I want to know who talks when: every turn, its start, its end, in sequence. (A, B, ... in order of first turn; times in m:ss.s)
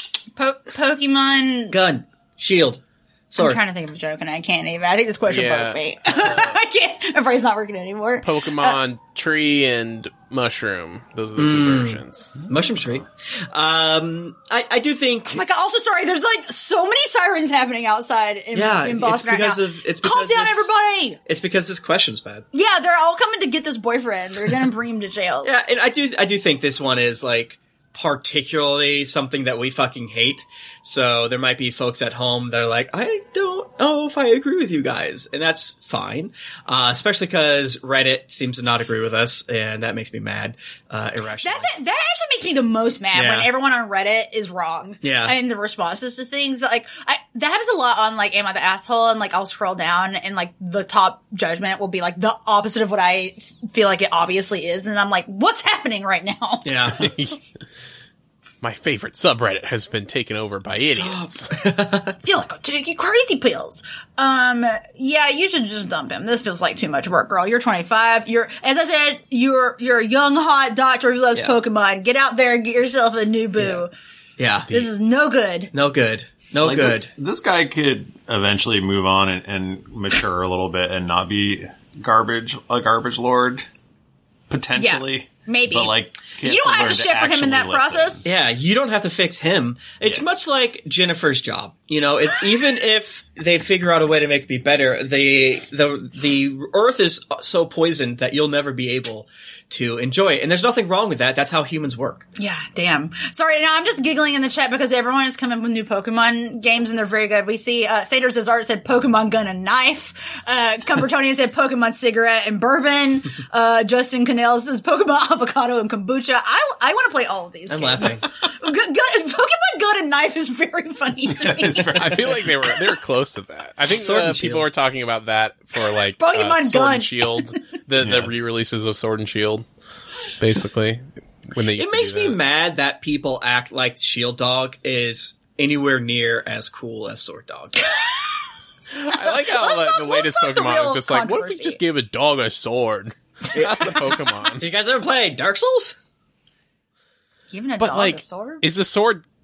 0:00.4-0:01.8 A
0:01.7-0:03.6 B
0:03.4-0:08.8 A
0:05.3-0:06.5 C
0:08.2-0:12.3 C
0:11.4-0:15.4 B
0:15.3-0:21.2 A
0:18.5-0:20.7 B
0:21.3-0:22.5 B
0:22.5-0:25.5 A
0:25.4-0:41.7 B
0:41.4-0:57.1 A
0:43.1-0:43.5 B
0:45.0-0:45.4 B
0:56.6-0:57.1 B
0:57.0-0:57.4 C
0:58.6-1:01.5 C
1:00.8-1:02.2 B
1:02.2-1:13.9 A
1:13.6-1:13.8 B
1:14.4-1:14.9 B
1:14.7-1:15.7 A
1:15.7-1:17.1 B
1:16.6-1:23.7 D
1:24.5-1:28.3 D
1:24.8-1:28.2 A
1:28.2-1:42.3 B
1:42.4-2:02.2 A
1:57.7-1:58.3 B
2:01.3-2:02.7 D
2:01.9-2:09.7 C
2:03.9-2:04.7 B
2:06.2-2:07.6 A
2:08.0-2:08.3 D
2:10.4-2:12.4 C
2:11.8-2:17.9 B
2:19.0-2:24.7 C
2:19.1-2:21.8 A
2:23.5-2:24.0 B
2:24.6-2:26.0 B
2:27.5-2:28.6 A
2:27.8-2:29.2 C